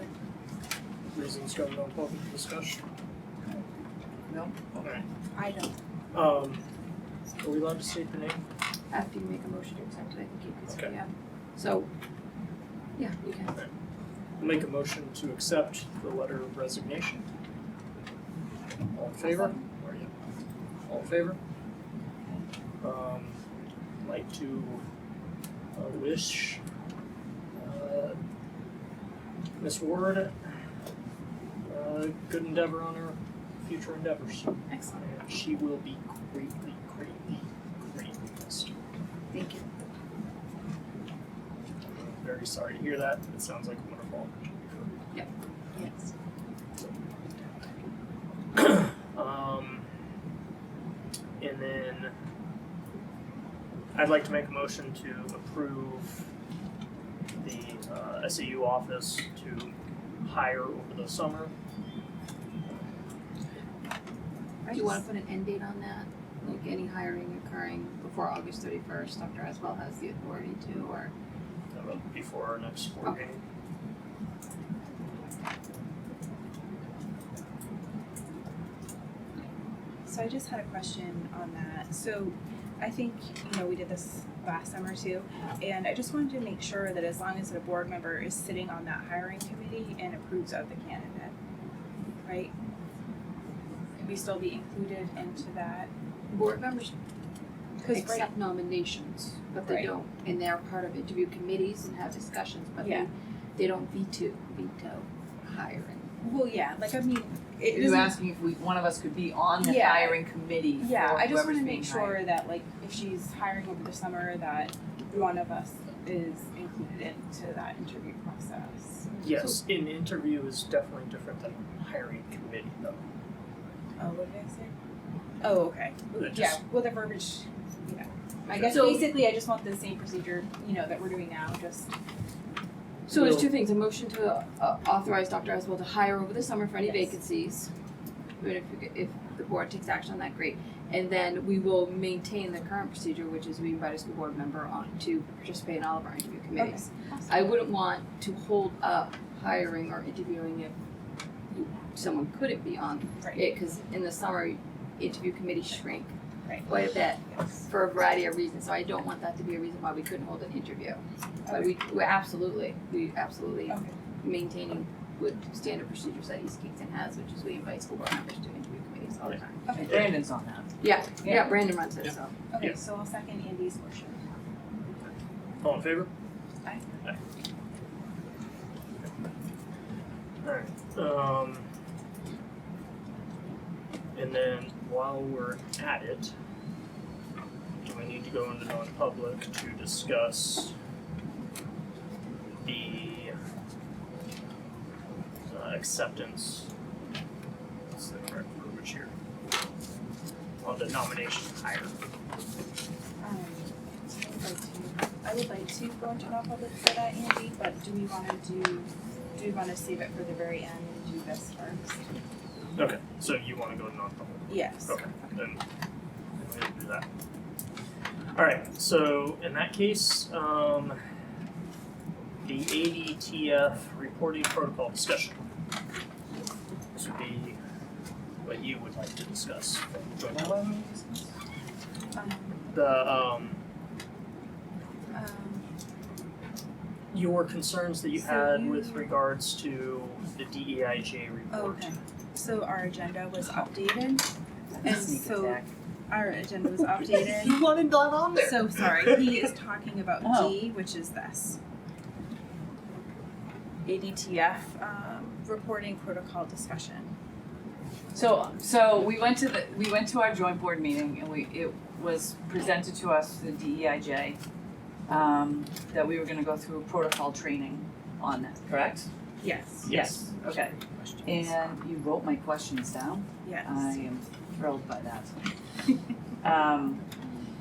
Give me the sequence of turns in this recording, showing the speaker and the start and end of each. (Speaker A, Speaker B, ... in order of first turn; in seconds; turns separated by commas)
Speaker A: 1.1-2.8, Speaker B: 4.3-5.0, Speaker C: 5.3-5.7, Speaker A: 6.1-6.6, Speaker A: 7.4-8.4, Speaker D: 8.9-11.9, Speaker D: 13.0-13.6, Speaker A: 14.4-17.3, Speaker A: 18.9-20.1, Speaker A: 20.9-21.4, Speaker A: 22.8-23.4, Speaker A: 24.0-24.8, Speaker A: 25.7-26.6, Speaker A: 27.5-28.2, Speaker A: 29.6-30.3, Speaker A: 31.6-38.7, Speaker D: 39.3-39.6, Speaker A: 41.9-44.9, Speaker A: 48.5-49.9, Speaker A: 51.4-52.1, Speaker A: 53.9-56.3, Speaker A: 57.4-61.5, Speaker C: 64.7-65.0, Speaker D: 64.7-71.1, Speaker A: 71.7-73.4, Speaker C: 80.0-91.3, Speaker C: 92.2-92.5, Speaker C: 94.0-95.9, Speaker D: 96.3-96.9, Speaker C: 97.8-98.2, Speaker D: 97.9-106.1, Speaker C: 102.8-103.1, Speaker C: 106.2-108.2, Speaker B: 107.7-112.2, Speaker C: 109.6-110.2, Speaker C: 110.8-119.2, Speaker A: 119.2-123.0, Speaker C: 124.0-124.7, Speaker C: 125.4-131.9, Speaker A: 126.2-126.6, Speaker D: 128.4-129.0, Speaker A: 128.5-128.9, Speaker A: 133.1-133.5, Speaker D: 133.1-137.7, Speaker D: 138.4-150.7, Speaker C: 146.6-147.4, Speaker D: 151.5-156.1, Speaker D: 156.7-169.7, Speaker B: 169.7-171.5, Speaker D: 170.8-172.3, Speaker C: 172.5-174.2, Speaker A: 175.6-176.1, Speaker A: 180.4-181.7, Speaker A: 184.1-186.3, Speaker A: 187.8-190.7, Speaker A: 192.6-193.3, Speaker A: 195.5-196.7, Speaker A: 197.8-199.1, Speaker A: 200.6-201.9, Speaker C: 203.2-212.1, Speaker A: 212.8-215.6, Speaker C: 214.5-215.1, Speaker A: 216.4-217.1, Speaker A: 218.3-221.0, Speaker A: 222.4-225.4, Speaker A: 226.9-227.6, Speaker A: 228.4-230.5, Speaker B: 230.3-231.2, Speaker C: 232.1-232.6, Speaker A: 232.7-233.6, Speaker C: 235.1-235.7, Speaker A: 237.1-242.0, Speaker C: 238.2-239.1, Speaker C: 241.5-247.6, Speaker B: 244.7-245.7, Speaker A: 247.0-249.3, Speaker C: 248.4-251.6, Speaker B: 250.2-250.6, Speaker C: 253.8-257.1, Speaker B: 258.1-264.4, Speaker B: 265.1-269.1, Speaker C: 269.4-269.9, Speaker A: 269.8-271.2, Speaker B: 269.9-275.3, Speaker C: 273.4-273.9, Speaker B: 276.4-277.0